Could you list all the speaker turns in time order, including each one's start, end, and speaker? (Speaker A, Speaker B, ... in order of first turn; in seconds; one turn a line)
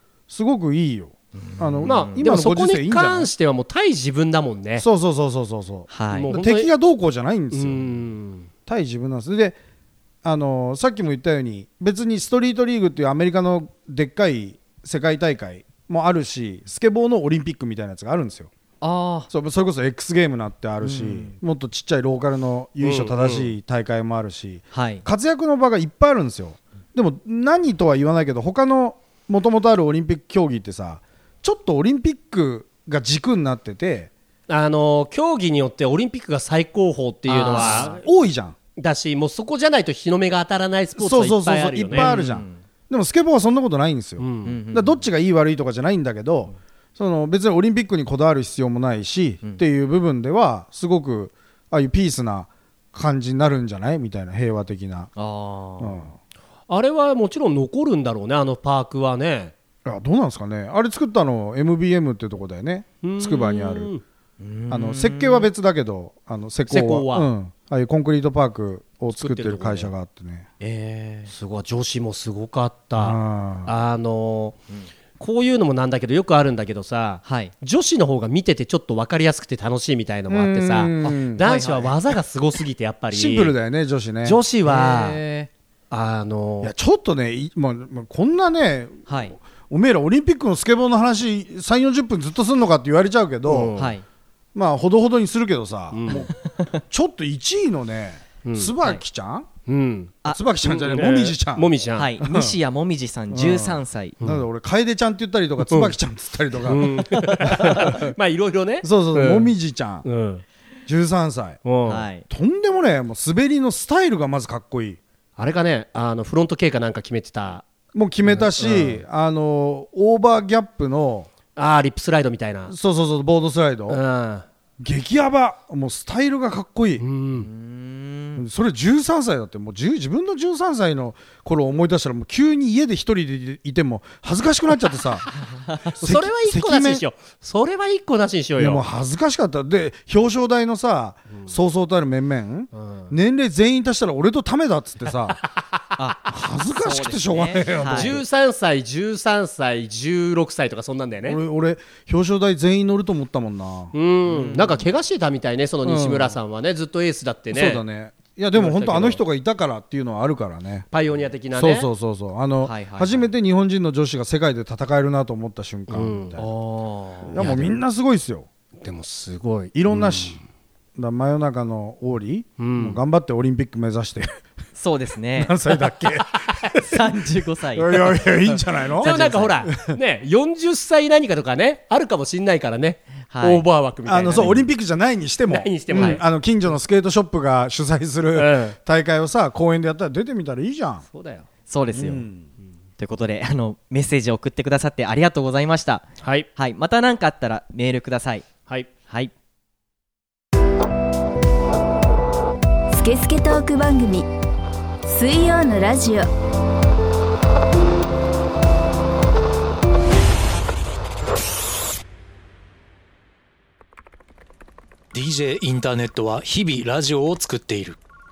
Speaker A: 0.3-3.3
Speaker B: 1.4-2.2
Speaker C: 1.8-4.9
Speaker A: 4.8-8.0
Speaker B: 5.9-6.3
Speaker C: 6.1-6.7
Speaker C: 7.5-8.5
Speaker A: 8.7-9.6
Speaker A: 10.2-18.5
Speaker B: 18.8-19.3
Speaker A: 19.3-34.1
Speaker B: 20.9-21.3
Speaker C: 22.8-23.6
Speaker B: 24.7-25.1
Speaker C: 34.5-38.0
Speaker B: 37.3-38.0
Speaker A: 37.5-38.6
Speaker C: 38.8-42.1
Speaker A: 41.0-55.1
Speaker B: 41.9-42.6
Speaker C: 44.2-44.6
Speaker B: 44.4-45.0
Speaker B: 55.1-56.1
Speaker A: 55.8-56.1
Speaker C: 56.7-59.5
Speaker A: 59.9-63.9
Speaker C: 63.0-64.0
Speaker B: 64.4-65.5
Speaker A: 64.7-70.5
Speaker C: 66.7-67.3
Speaker C: 69.1-69.9
Speaker B: 70.6-71.3
Speaker C: 71.3-74.6
Speaker A: 73.0-73.7
Speaker C: 75.2-83.5
Speaker B: 77.2-77.5
Speaker A: 80.3-81.4
Speaker B: 81.4-81.9
Speaker A: 83.1-84.4
Speaker C: 84.2-85.2
Speaker B: 84.7-85.5
Speaker C: 85.9-86.7
Speaker A: 86.6-93.7
Speaker B: 89.1-89.4
Speaker C: 93.5-94.0
Speaker B: 93.8-94.0
Speaker A: 94.5-99.5
Speaker C: 95.9-96.3
Speaker B: 96.4-96.7
Speaker C: 98.4-98.7
Speaker C: 99.7-102.1
Speaker A: 100.3-102.6
Speaker B: 102.0-104.2
Speaker A: 103.3-108.1
Speaker C: 105.6-105.9
Speaker C: 106.6-109.5
Speaker B: 107.1-107.8
Speaker A: 108.8-110.1
Speaker C: 110.0-110.4
Speaker A: 110.9-111.6
Speaker C: 111.6-112.1
Speaker B: 111.8-112.3
Speaker A: 112.3-115.0
Speaker C: 115.4-117.6
Speaker A: 117.9-121.3
Speaker C: 118.2-119.0
Speaker C: 121.6-122.7
Speaker A: 122.7-124.0
Speaker C: 123.9-124.5
Speaker A: 124.8-127.0
Speaker C: 127.0-127.5
Speaker B: 127.4-128.4
Speaker A: 128.4-135.3
Speaker B: 135.6-135.8
Speaker A: 135.9-137.0
Speaker C: 136.0-138.8
Speaker A: 138.6-145.4
Speaker C: 142.8-143.1
Speaker B: 146.0-148.1
Speaker A: 146.3-148.2
Speaker C: 147.9-151.4
Speaker A: 151.2-153.9
Speaker C: 153.9-157.8
Speaker B: 154.3-154.8
Speaker A: 155.8-156.4
Speaker A: 157.5-160.9
Speaker C: 158.5-159.2
Speaker C: 160.9-161.9
Speaker A: 161.5-166.4
Speaker B: 162.6-163.3
Speaker C: 165.9-166.5
Speaker B: 166.4-167.7
Speaker A: 167.3-168.5
Speaker C: 168.8-170.4
Speaker A: 169.7-170.4
Speaker A: 171.0-174.4
Speaker C: 172.6-173.0
Speaker B: 174.8-175.6
Speaker A: 175.4-177.2
Speaker B: 176.8-178.0
Speaker A: 177.7-179.9
Speaker C: 179.0-184.7
Speaker B: 179.0-179.7
Speaker B: 183.3-183.6
Speaker A: 184.1-191.1
Speaker C: 185.5-186.2
Speaker B: 185.9-186.2
Speaker C: 188.4-188.8
Speaker C: 191.1-191.5
Speaker B: 191.7-192.3
Speaker A: 191.9-192.5
Speaker B: 193.0-198.5
Speaker C: 196.2-196.5
Speaker D: 202.9-204.3
Speaker D: 205.1-206.3
Speaker E: 215.1-218.0